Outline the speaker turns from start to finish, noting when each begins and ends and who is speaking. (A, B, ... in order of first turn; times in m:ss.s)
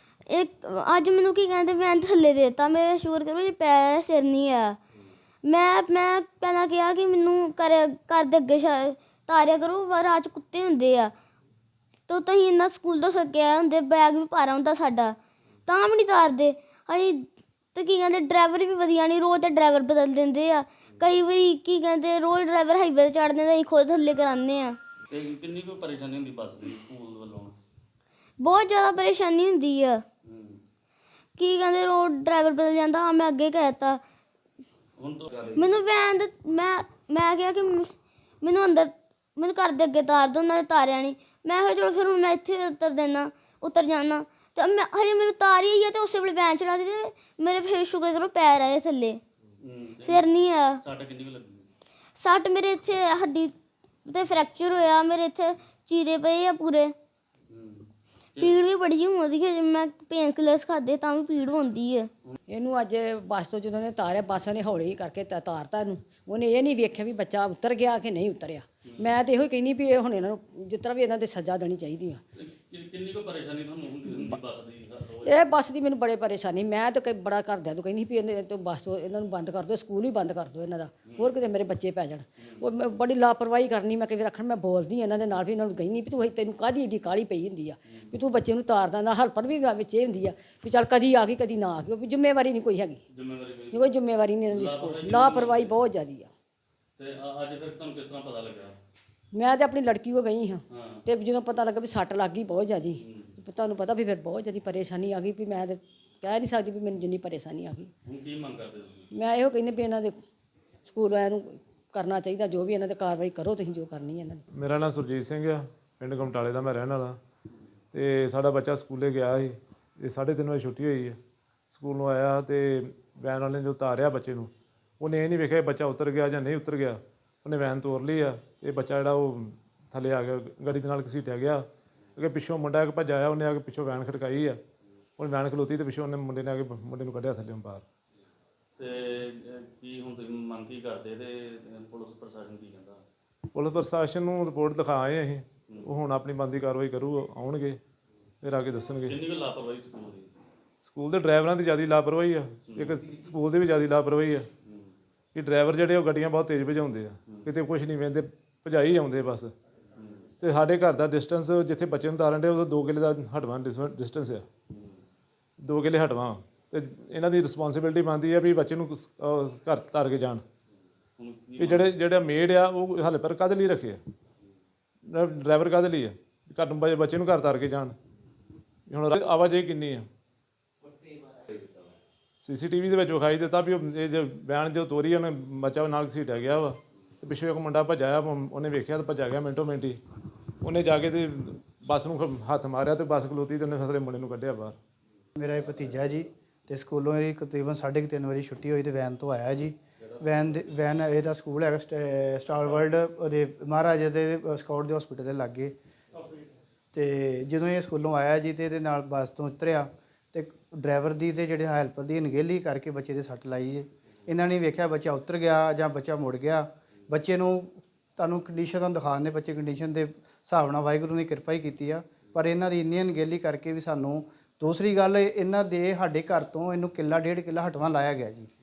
0:00.3-0:04.8 A
0:05.5-0:11.1 A
0:12.1-0:24.8 A
0:25.1-0:27.6 B
0:28.4-0:30.0 A
0:30.2-0:30.6 B
0:31.4-0:34.0 A
0:35.0-0:35.7 B
0:35.6-0:49.2 A
0:49.6-0:50.3 B
0:50.0-0:50.8 A
0:50.8-0:51.7 B
0:52.2-0:53.5 A
0:54.0-0:56.9 A
0:57.5-0:58.6 B
0:58.4-1:02.1 A
1:02.5-1:12.2 C
1:08.8-1:09.1 B
1:12.3-1:15.5 B
1:14.1-1:14.4 C
1:15.2-1:33.0 C
1:21.0-1:21.3 B
1:22.4-1:22.6 B
1:33.1-1:33.9 B
1:33.7-1:36.3 C
1:34.5-1:35.7 B
1:37.0-1:38.8 B
1:39.3-1:47.9 C
1:40.7-1:41.0 B
1:43.0-1:43.3 B
1:48.0-1:49.1 B
1:49.1-1:50.2 C
1:50.8-1:54.4 C
1:54.5-1:57.2 D
1:57.9-2:01.2 D
2:01.7-2:11.6 D
2:12.2-2:14.6 D
2:15.2-2:17.8 D
2:18.8-2:23.0 B
2:23.5-2:27.8 D
2:28.4-2:29.2 D
2:29.0-2:30.3 B
2:30.8-2:34.5 D
2:32.7-2:33.0 B
2:34.6-2:34.9 B
2:35.3-2:39.5 D
2:40.0-2:40.3 B
2:40.4-2:44.4 D
2:44.7-2:45.0 B
2:45.6-2:50.4 D
2:51.2-2:51.9 B
2:51.6-2:54.0 D
2:55.1-2:57.9 D
2:58.9-3:00.1 D
3:02.4-3:10.0 D
3:10.6-3:14.8 D
3:15.4-3:25.7 E
3:26.9-3:48.5 E